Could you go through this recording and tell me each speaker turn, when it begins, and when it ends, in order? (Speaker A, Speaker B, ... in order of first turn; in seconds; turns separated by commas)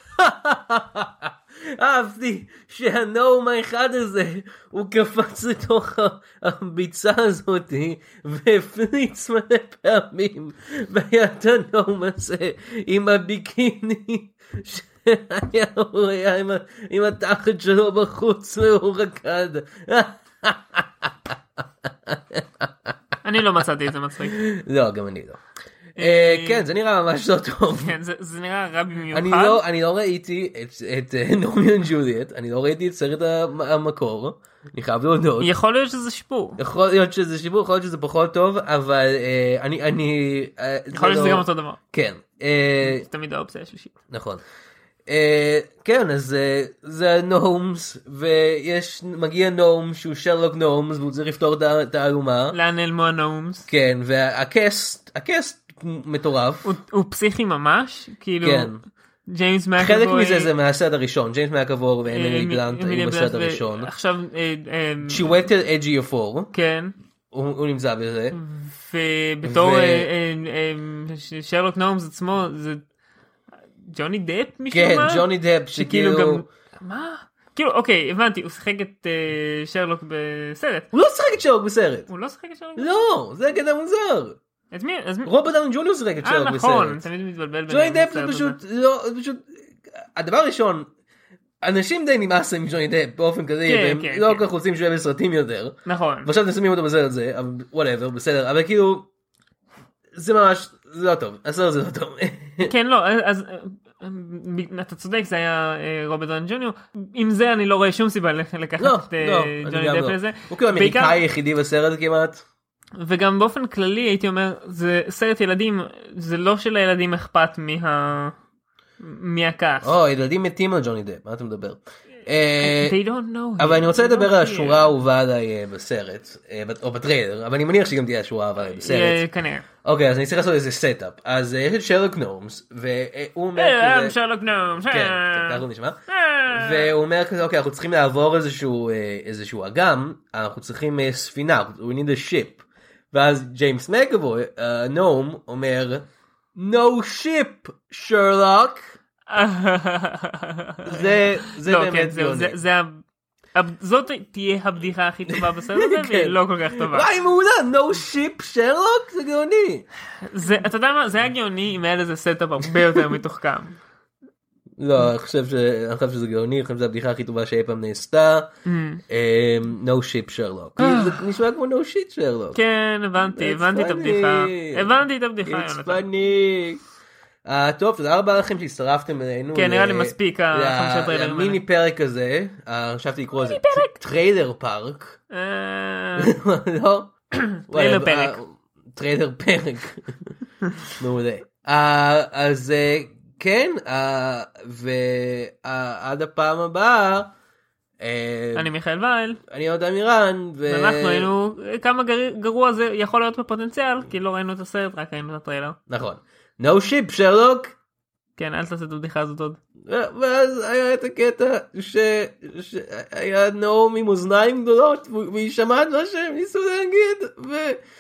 Speaker A: 0.2-21.3, Speaker A: 21.9-22.9, Speaker B: 23.2-24.4, Speaker A: 24.2-25.4, Speaker B: 26.0-26.7, Speaker A: 26.0-27.9, Speaker B: 27.8-29.6, Speaker A: 29.1-35.5, Speaker B: 35.4-36.6, Speaker A: 36.6-43.0, Speaker B: 40.9-41.8, Speaker B: 42.8-43.9, Speaker A: 44.1-44.4, Speaker A: 45.1-52.6, Speaker B: 52.5-53.7, Speaker A: 53.7-56.7, Speaker B: 56.6-58.7, Speaker A: 58.4-58.8, Speaker B: 59.3-60.5, Speaker A: 59.8-63.9, Speaker B: 62.1-65.4, Speaker A: 65.1-66.5, Speaker B: 66.5-66.9, Speaker A: 67.3-68.4, Speaker B: 68.3-72.8, Speaker A: 69.5-70.1, Speaker B: 73.9-80.9, Speaker A: 74.7-76.5, Speaker A: 80.9-82.1, Speaker B: 82.1-83.1, Speaker A: 82.8-84.4, Speaker B: 84.7-85.3, Speaker A: 85.2-87.0, Speaker B: 86.2-88.6, Speaker A: 87.7-90.9, Speaker A: 91.6-99.1, Speaker B: 93.7-94.5, Speaker B: 95.9-96.3, Speaker A: 100.2-102.7, Speaker B: 102.6-111.2, Speaker A: 108.8-112.4, Speaker B: 113.0-118.3, Speaker B: 119.0-120.0, Speaker A: 119.8-123.0, Speaker B: 122.6-124.9, Speaker A: 123.6-129.2, Speaker B: 128.8-129.7, Speaker A: 129.8-134.2, Speaker B: 133.6-136.9, Speaker A: 134.9-148.9, Speaker B: 149.3-153.0, Speaker A: 150.8-152.6, Speaker B: 153.6-157.1, Speaker A: 155.3-159.9, Speaker B: 160.2-163.8, Speaker A: 164.8-168.5, Speaker B: 168.7-169.0, Speaker A: 169.1-172.6, Speaker B: 170.8-171.2, Speaker B: 172.5-176.0, Speaker A: 173.3-176.8, Speaker A: 177.4-185.2, Speaker B: 179.5-181.6, Speaker B: 183.3-184.0, Speaker B: 185.3-186.3, Speaker A: 186.2-187.1, Speaker B: 187.4-188.4, Speaker A: 187.7-190.2, Speaker A: 191.0-197.3, Speaker A: 198.0-198.7, Speaker B: 198.6-199.4, Speaker A: 199.5-201.3, Speaker B: 200.7-205.8, Speaker A: 205.9-207.7, Speaker B: 208.4-209.6, Speaker A: 209.8-217.8